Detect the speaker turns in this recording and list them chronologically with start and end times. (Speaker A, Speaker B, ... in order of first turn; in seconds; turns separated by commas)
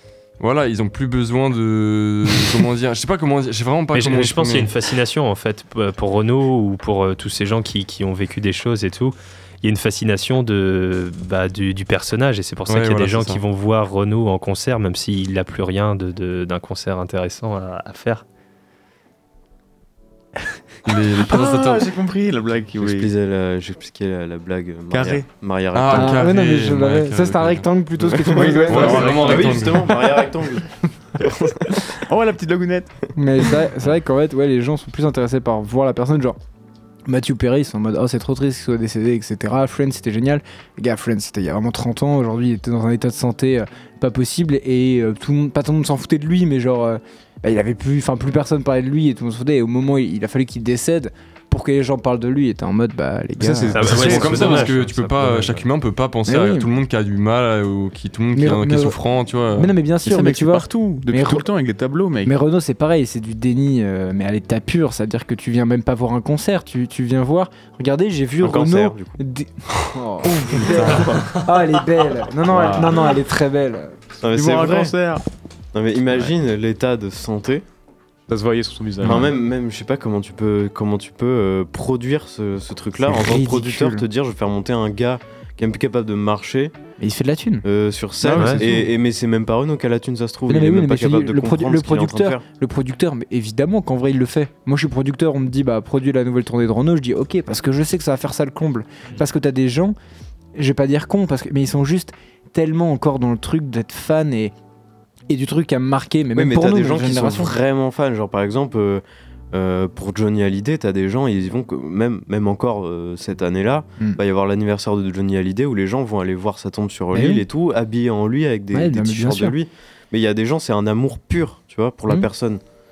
Speaker A: 0.4-4.7, Speaker B: 3.9-18.2, Speaker A: 12.7-13.4, Speaker A: 20.8-21.9, Speaker C: 21.2-23.1, Speaker D: 22.8-26.3, Speaker C: 24.9-25.2, Speaker A: 25.7-27.7, Speaker E: 25.9-29.2, Speaker D: 28.1-31.5, Speaker C: 28.2-30.2, Speaker A: 28.6-30.0, Speaker C: 31.9-33.0, Speaker E: 33.1-36.4, Speaker E: 37.1-54.1, Speaker C: 53.4-54.7, Speaker B: 53.7-55.6, Speaker A: 53.8-59.7, Speaker E: 56.2-56.7, Speaker E: 58.3-59.0, Speaker E: 59.5-61.5, Speaker C: 60.0-62.3, Speaker E: 62.2-73.9, Speaker D: 68.4-69.2, Speaker C: 70.2-71.3, Speaker A: 70.8-71.1, Speaker C: 72.5-73.2, Speaker D: 74.2-75.0, Speaker C: 74.3-75.2, Speaker D: 75.7-77.6, Speaker C: 78.3-79.3, Speaker D: 79.0-86.7, Speaker E: 83.0-84.0, Speaker E: 87.0-87.7, Speaker D: 87.6-92.4, Speaker C: 88.2-88.8, Speaker B: 88.3-88.6, Speaker E: 90.5-99.9, Speaker E: 100.5-104.5, Speaker E: 105.3-107.5, Speaker D: 106.3-122.6, Speaker E: 117.1-117.4, Speaker E: 118.7-119.5